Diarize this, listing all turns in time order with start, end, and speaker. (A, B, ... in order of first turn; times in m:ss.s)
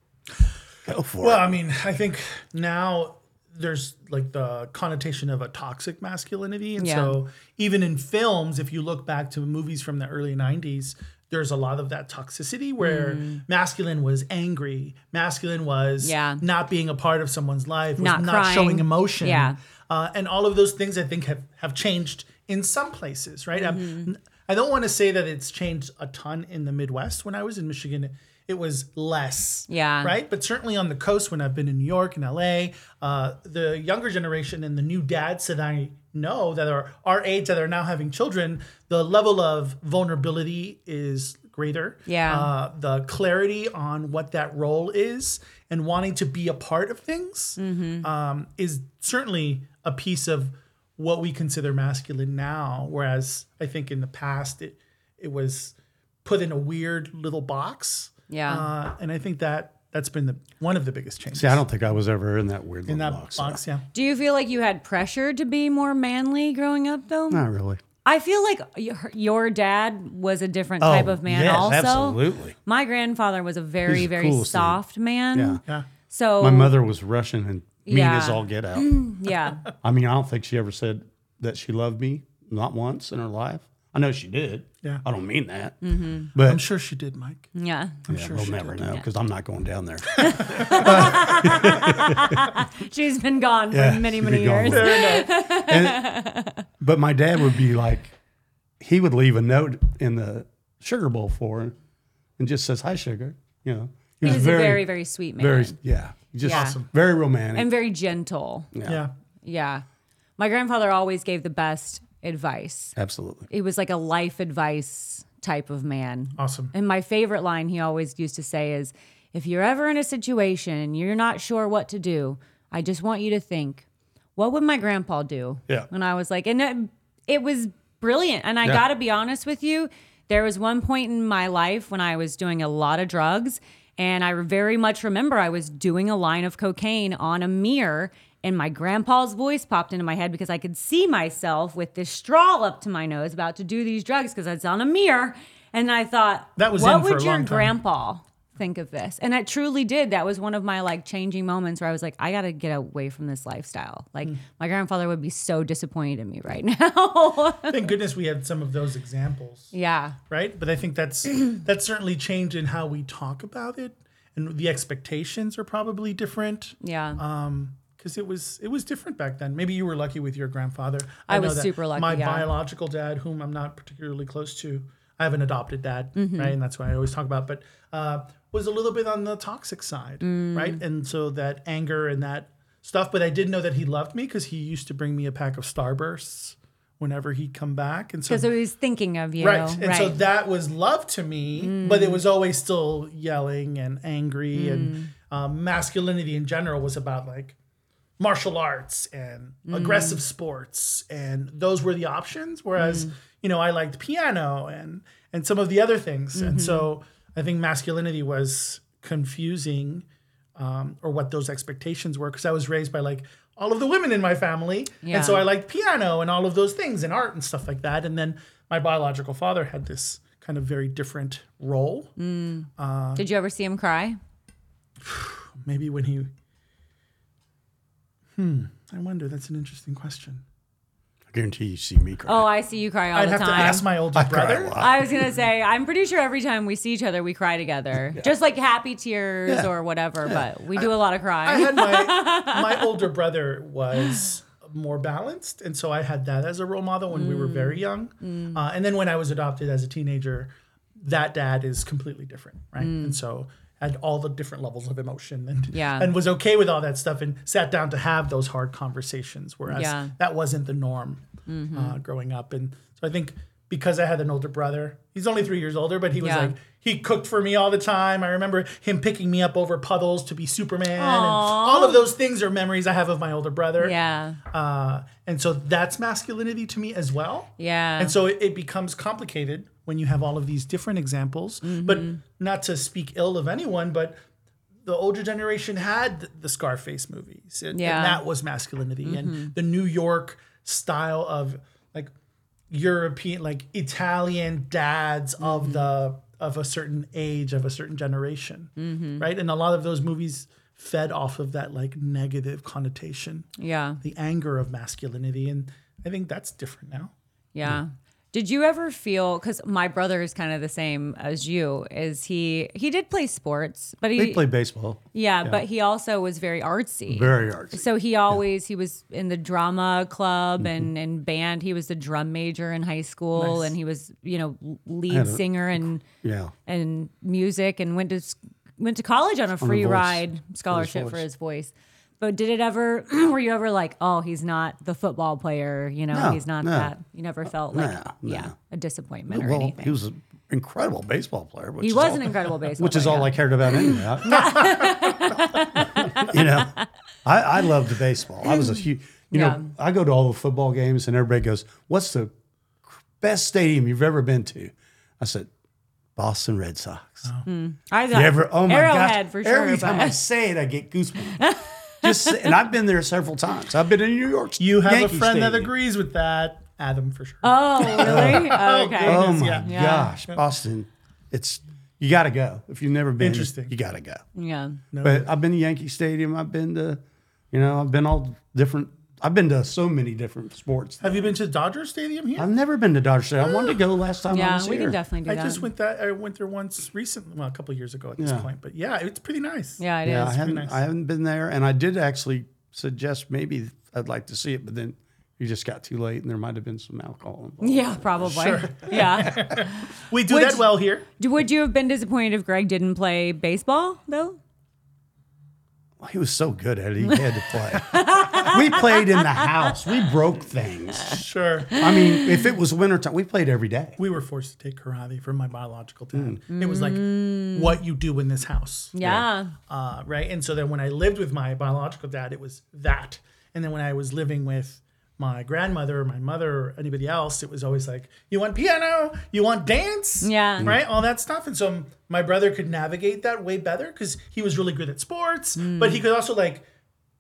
0:00.9-0:01.6 A
0:01.2-1:01.6 B
0:06.8-0:07.2 C
0:12.8-0:13.4 C
0:16.0-0:16.4 C
0:18.0-0:19.6 C
0:23.6-0:24.1 C
0:29.7-0:30.1 C
0:42.1-0:42.5 C
0:47.6-0:48.1 C
0:58.3-0:58.7 C
1:01.4-1:03.6 A
1:02.9-1:03.9 B
1:03.9-1:07.4 C
1:07.3-1:07.8 A
1:08.0-1:16.8 C
1:10.8-1:12.6 A
1:13.8-1:14.8 A
1:15.3-1:15.6 A
1:16.4-1:19.0 A
1:17.9-1:19.6 C
1:19.8-1:26.6 A
1:25.8-1:26.3 C
1:26.4-1:27.5 B
1:27.6-1:28.0 C
1:28.0-1:28.9 B
1:28.1-1:32.5 A
1:30.2-1:36.6 C
1:30.2-1:30.9 B
1:33.7-1:36.1 A
1:34.7-1:35.3 B
1:36.8-1:38.2 A
1:38.8-1:41.8 A
1:42.4-1:47.7 A
1:44.2-1:45.8 C
1:46.4-1:46.8 C
1:46.4-1:46.9 B
1:47.5-1:48.7 C
1:48.7-1:49.0 A
1:48.8-1:49.1 B
1:49.4-1:49.8 C
1:50.4-1:53.0 C
1:53.0-1:53.5 A
1:53.5-2:03.8 C
1:56.4-1:56.7 B
2:04.4-2:37.9 C
2:26.6-2:27.7 B
2:37.7-2:39.7 B
2:39.7-2:40.2 C
2:40.3-3:08.5 B
2:46.8-2:47.2 C
2:51.3-2:52.5 C
2:56.2-2:56.6 C
3:00.2-3:00.8 C
3:08.3-3:10.2 C
3:09.4-3:17.6 B
3:11.6-3:12.2 C
3:14.5-3:15.1 C
3:18.2-3:30.0 B
3:19.7-3:20.2 C
3:22.8-3:23.1 C
3:26.4-3:26.9 C
3:30.6-3:42.1 B
3:35.0-3:35.5 C
3:42.2-3:44.2 C
3:42.8-3:43.2 B
3:45.0-3:46.3 B
3:48.4-3:50.4 B
3:51.3-3:52.5 A
3:52.3-3:53.9 C
3:53.1-3:54.8 B
3:54.1-3:55.1 A
3:54.8-4:03.0 C
4:01.4-4:34.0 B
4:07.1-4:08.6 C
4:12.8-4:13.2 C
4:15.7-4:16.1 C
4:19.7-4:20.1 C
4:21.5-4:22.0 C
4:26.2-4:26.5 C
4:31.0-4:32.0 C
4:33.8-4:34.4 C
4:34.5-4:44.2 B
4:37.6-4:38.1 C
4:41.6-4:42.2 C
4:44.8-4:52.1 B
4:47.7-4:48.2 C
4:49.0-4:49.5 C
4:52.7-5:03.5 B
4:55.4-4:55.8 C
4:58.8-4:59.3 C
5:03.6-5:04.0 C
5:04.0-5:07.1 B
5:07.5-5:14.5 C
5:14.2-5:15.6 A
5:15.1-5:26.0 C
5:17.1-5:18.4 A
5:20.6-5:20.9 A
5:23.4-5:23.7 B
5:25.1-5:26.5 A
5:26.7-5:40.0 C
5:29.6-5:31.2 A
5:36.1-5:36.9 A
5:37.7-5:38.5 A
5:39.3-5:44.8 A
5:41.8-5:46.8 C
5:45.8-5:52.3 A
5:48.5-5:48.8 C
5:49.3-5:49.7 C
5:52.8-5:55.5 A
5:56.2-5:57.3 A
5:57.5-6:00.2 C
5:58.1-6:01.4 A
6:01.4-6:02.6 C
6:02.0-6:05.7 A
6:04.6-6:09.7 B
6:07.4-6:10.1 C
6:08.0-6:14.2 A
6:13.2-6:13.7 B
6:14.4-6:14.8 C
6:14.9-6:15.3 B
6:15.0-6:17.0 A
6:17.5-6:21.3 A
6:21.0-6:22.5 B
6:22.4-6:25.0 A
6:23.4-6:23.8 B
6:24.3-6:25.7 C
6:25.3-6:30.8 B
6:28.2-6:28.5 A
6:29.8-6:30.4 C
6:30.0-6:38.5 A
6:37.6-6:40.7 C
6:38.2-6:41.1 B
6:41.2-6:44.4 C
6:46.0-6:54.0 A
6:47.8-6:49.5 C
6:51.1-6:51.8 B
6:51.8-6:52.5 C
6:54.0-6:59.0 B
6:56.5-6:57.8 C
6:58.9-6:59.5 C
6:59.0-6:59.3 A
6:59.7-7:16.6 B
7:10.2-7:10.7 C
7:15.6-7:16.0 C